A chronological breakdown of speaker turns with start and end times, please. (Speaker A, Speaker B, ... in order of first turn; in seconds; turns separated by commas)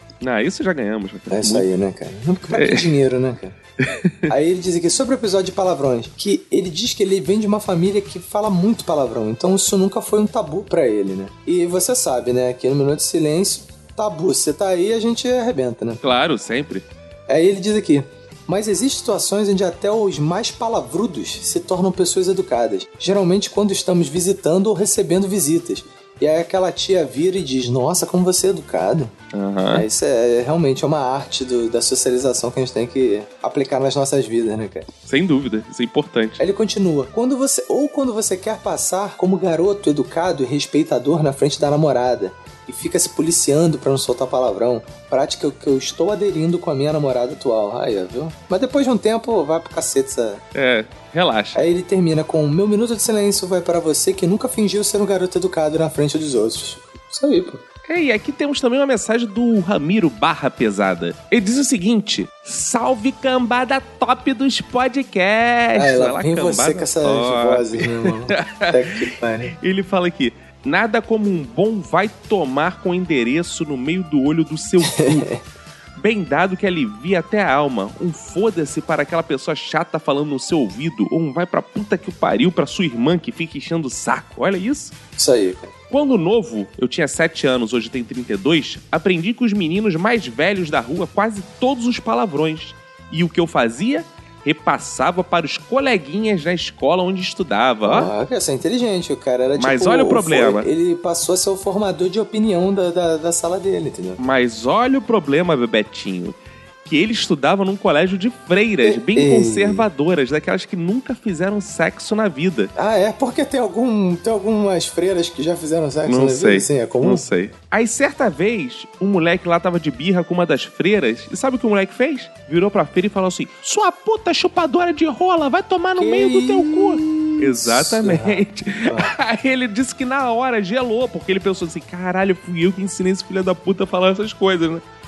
Speaker A: 0.2-1.7, Speaker B: 1.3-3.5, Speaker A: 2.5-2.9, Speaker A: 3.9-4.3, Speaker B: 4.3-16.0, Speaker A: 16.0-16.8, Speaker B: 17.3-29.1, Speaker A: 29.3-29.9, Speaker B: 29.7-34.9, Speaker A: 35.1-36.4, Speaker B: 36.4-50.4, Speaker A: 50.5-51.6, Speaker B: 51.5-57.6, Speaker A: 57.9-69.0, Speaker B: 65.7-69.5, Speaker A: 69.6-75.3, Speaker B: 74.8-75.4, Speaker A: 76.0-84.9, Speaker B: 85.2-85.7, Speaker A: 85.9-98.1, Speaker B: 97.8-104.2, Speaker A: 99.6-100.7, Speaker A: 104.2-112.7, Speaker B: 108.8-109.9, Speaker B: 112.8-117.2, Speaker A: 116.0-134.8, Speaker B: 126.0-129.1